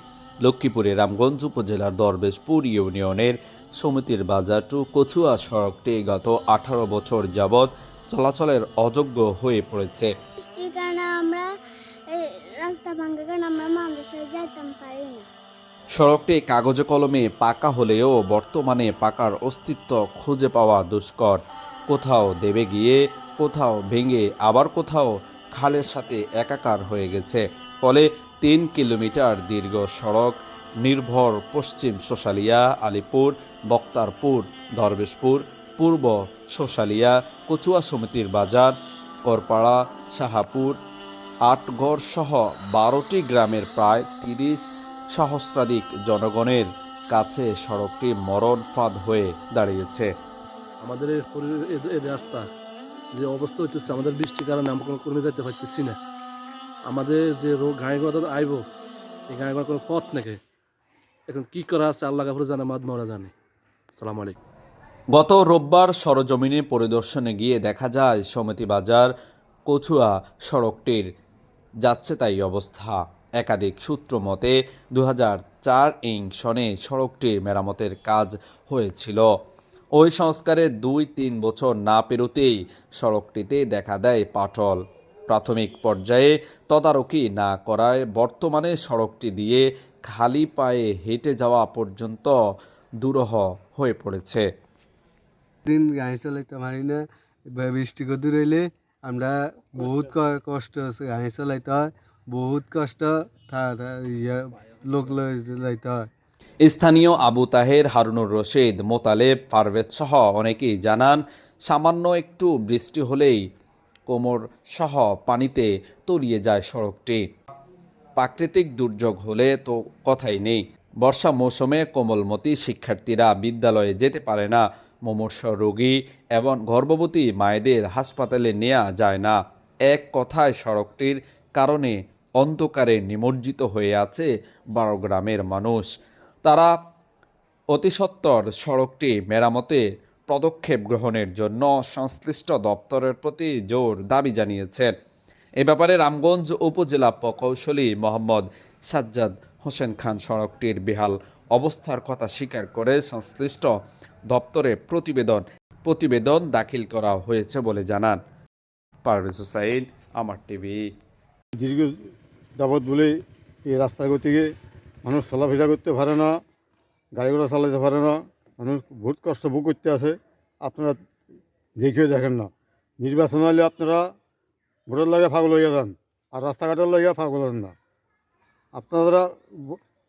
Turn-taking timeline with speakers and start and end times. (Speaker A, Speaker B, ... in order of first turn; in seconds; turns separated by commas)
Speaker A: 0.4-10.1, Speaker B: 10.4-11.4, Speaker B: 12.1-15.2, Speaker A: 15.9-38.7, Speaker A: 39.2-40.8, Speaker A: 41.5-50.1, Speaker C: 50.8-52.5, Speaker C: 53.1-56.0, Speaker C: 56.9-58.6, Speaker C: 59.3-60.4, Speaker C: 61.3-63.3, Speaker C: 63.9-64.4, Speaker A: 65.1-69.1, Speaker A: 69.7-71.1, Speaker A: 71.8-79.3, Speaker A: 79.9-92.4, Speaker A: 93.0-94.5, Speaker D: 95.7-106.1, Speaker A: 106.6-113.4, Speaker A: 114.1-117.2, Speaker A: 118.2-129.4, Speaker A: 129.9-135.9, Speaker A: 136.4-136.7, Speaker A: 137.7-144.9, Speaker A: 145.6-153.7, Speaker A: 154.3-158.2, Speaker A: 159.0-160.8, Speaker E: 161.6-161.9, Speaker E: 162.6-163.1, Speaker E: 163.7-164.5, Speaker E: 165.0-166.3, Speaker E: 167.1-171.0, Speaker E: 171.8-174.1, Speaker E: 174.9-177.7, Speaker E: 178.7-179.8